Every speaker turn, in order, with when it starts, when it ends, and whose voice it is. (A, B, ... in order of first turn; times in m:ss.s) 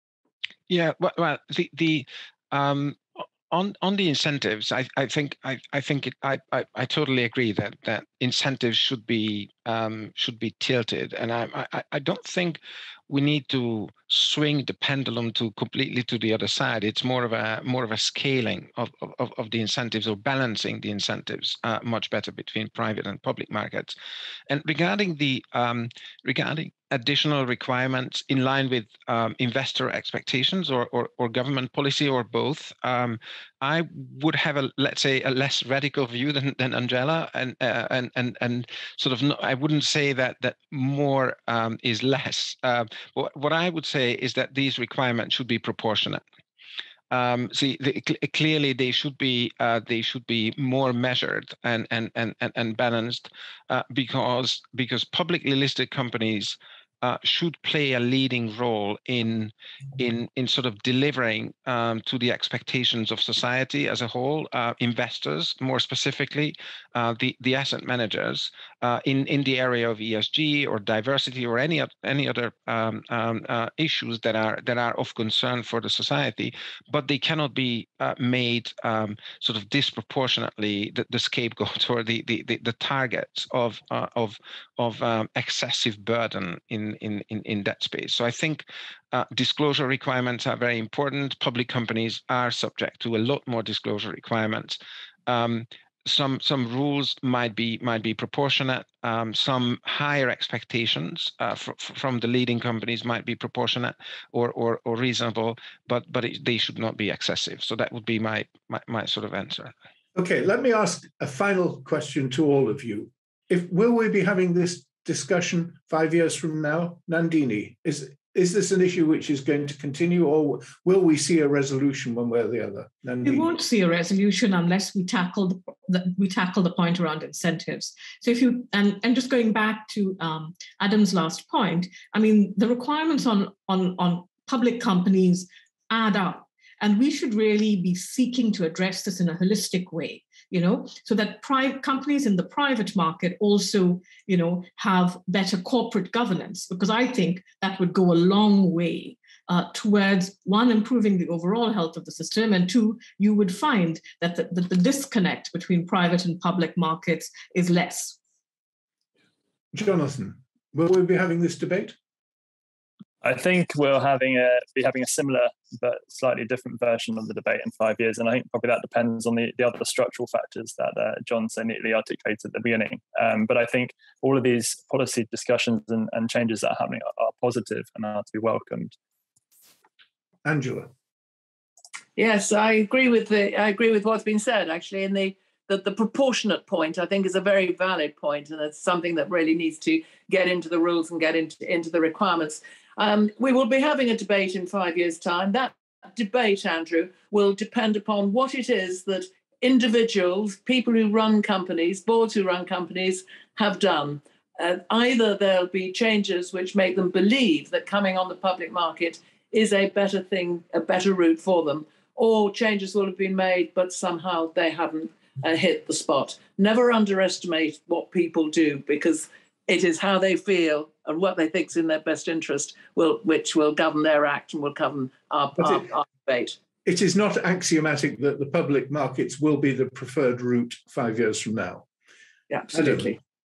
0:00.7-0:24.0 A
0:24.5-0:46.2 A
0:47.1-1:49.7 A
1:50.1-2:03.5 B
2:03.2-2:38.2 C
2:39.7-2:42.0 B
2:43.2-2:59.0 D
3:00.4-3:00.9 B
3:02.2-3:46.6 E
3:45.6-3:45.8 B
3:46.8-3:51.9 B
3:52.5-3:53.2 E
3:52.7-3:53.2 B